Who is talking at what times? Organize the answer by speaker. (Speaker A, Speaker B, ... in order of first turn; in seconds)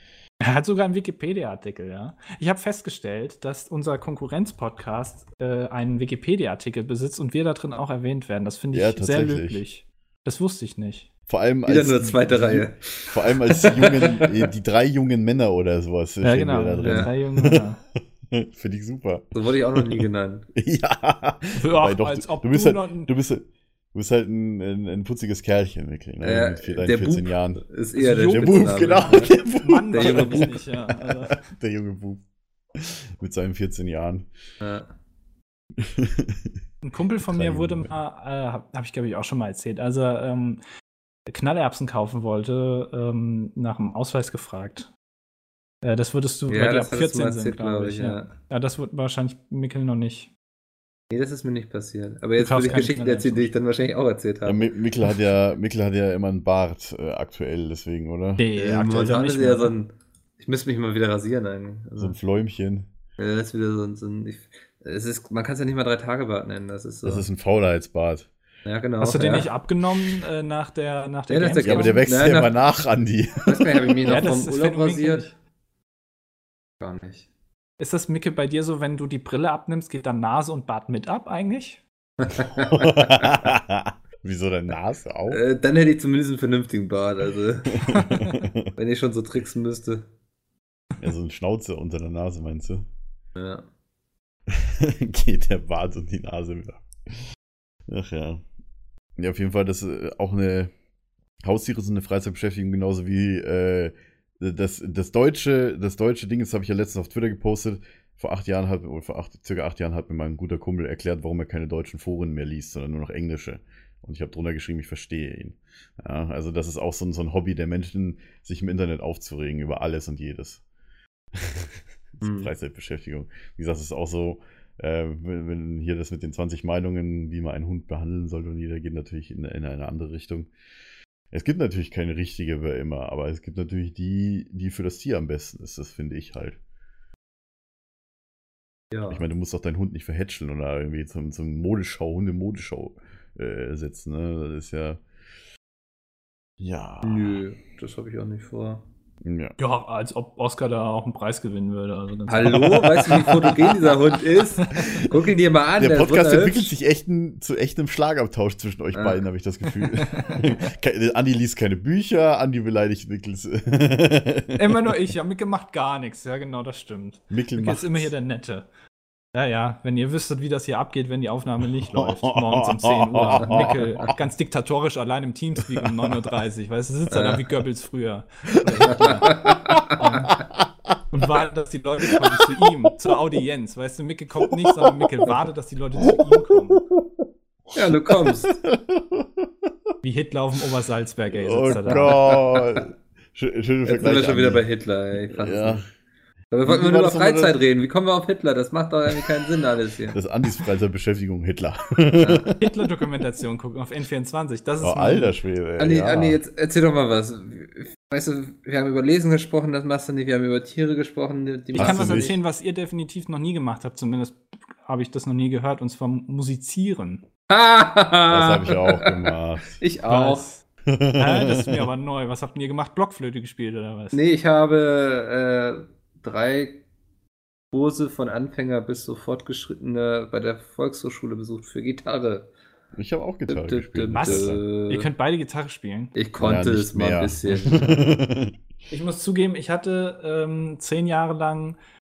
Speaker A: 0.4-11.1, 16.2-17.8, 21.5-23.1, 28.0-29.1, 29.6-31.4, 36.8-40.6, 41.3-44.9, 45.8-50.3, 52.4-53.5, 58.4-59.7, 69.0-72.1, 74.0-75.3, 77.8-81.8, 87.9-88.3, 149.6-153.2, 160.1-160.4, 164.5-168.7, 169.3-180.4, 181.1-186.8, 190.0-192.2, 202.6-205.3, 211.8-217.2, 220.1-220.6, 221.2-224.2, 234.1-236.1, 238.9-241.8
Speaker B: 8.7-9.6, 11.3-17.6, 18.3-34.3, 35.8-36.6, 37.3-37.9, 54.4-58.8, 62.0-62.9, 67.0-68.3, 71.6-74.3, 82.7-85.4, 87.7-88.7, 91.0-92.9, 94.5-97.2, 97.9-98.4, 99.2-100.7, 101.4-120.6, 121.3-130.5, 131.3-136.6, 139.1-145.0, 146.6-147.4, 149.2-149.6, 152.5-154.0, 154.7-155.1, 155.8-165.0, 167.3-168.1, 171.9-174.1, 175.7-176.2, 178.7-181.0, 182.0-182.9, 184.6-185.3, 186.0-189.7, 191.3-194.6, 195.2-195.8, 196.7-197.6, 200.1-202.7, 204.8-206.4, 211.7-212.3, 218.3-219.8, 220.8-221.9, 232.9-234.6, 236.4-238.6
Speaker C: 11.7-14.3, 16.8-17.1, 19.3-20.4, 26.2-29.3, 29.9-30.6, 34.6-34.9, 46.5-48.3, 51.1-54.7, 58.6-62.1, 63.2-67.2, 68.6-69.5, 71.3-72.5, 73.5-75.3, 76.8-77.3, 82.2-83.3, 85.3-88.0, 88.8-90.1, 93.3-93.6, 122.2-122.5, 138.9-139.2, 147.0-148.8, 152.3-156.7, 158.9-159.2, 177.1-177.4, 178.9-179.9, 187.7-188.5, 191.6-192.8, 193.8-195.8, 196.5-200.2, 202.2-202.5, 205.8-212.4, 217.5-220.4, 224.1-226.8, 227.7-232.5, 233.5-235.1, 236.1-237.7